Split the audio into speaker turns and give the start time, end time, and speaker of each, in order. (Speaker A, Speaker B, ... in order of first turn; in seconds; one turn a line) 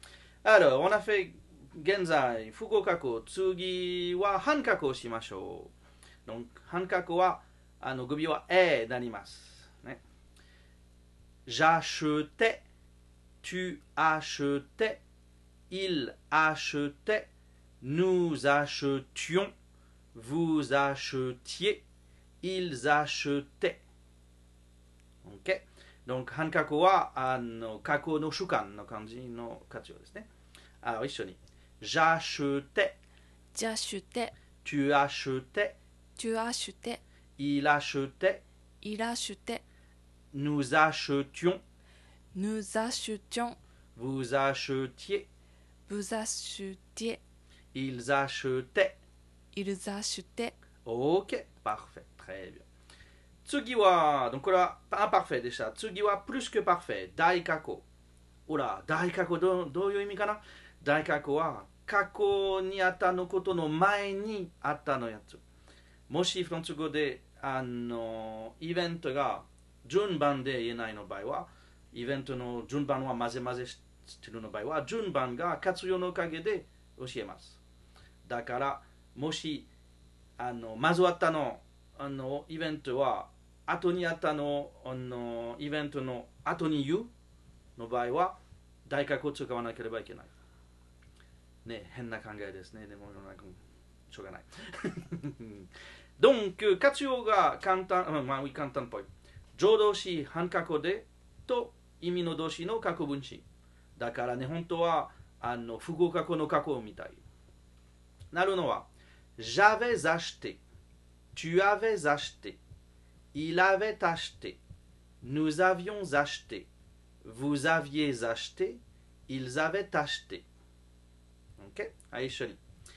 Speaker A: 0.4-5.7
Speaker A: 6.3-10.0
Speaker A: 11.5-12.6
Speaker A: 13.4-15.0
Speaker A: 15.7-17.3
Speaker A: 17.8-19.5
Speaker A: 20.1-21.8
Speaker A: 22.4-23.8
Speaker A: 25.2-30.3
Speaker A: 30.8-33.0
Speaker B: 33.5-34.3
Speaker A: 34.6-35.8
Speaker B: 36.2-37.0
Speaker A: 37.4-38.4
Speaker B: 38.8-39.6
Speaker A: 40.3-41.6
Speaker B: 42.3-43.6
Speaker A: 44.0-45.3
Speaker B: 45.9-47.2
Speaker A: 47.7-49.0
Speaker B: 49.5-50.6
Speaker A: 50.9-52.6
Speaker A: 53.4-57.9
Speaker A: 58.5-65.4
Speaker A: 66.1-77.6
Speaker A: 78.2-79.7
Speaker A: 80.4-87.1
Speaker A: 87.8-90.3
Speaker A: 91.6-93.6
Speaker A: 94.1-103.5
Speaker A: 104.0-107.2
Speaker A: 108.3-110.6
Speaker A: 111.3-112.6
Speaker A: 113.3-114.6
Speaker A: 115.2-116.7
Speaker A: 117.2-120.5
Speaker A: 121.6-122.6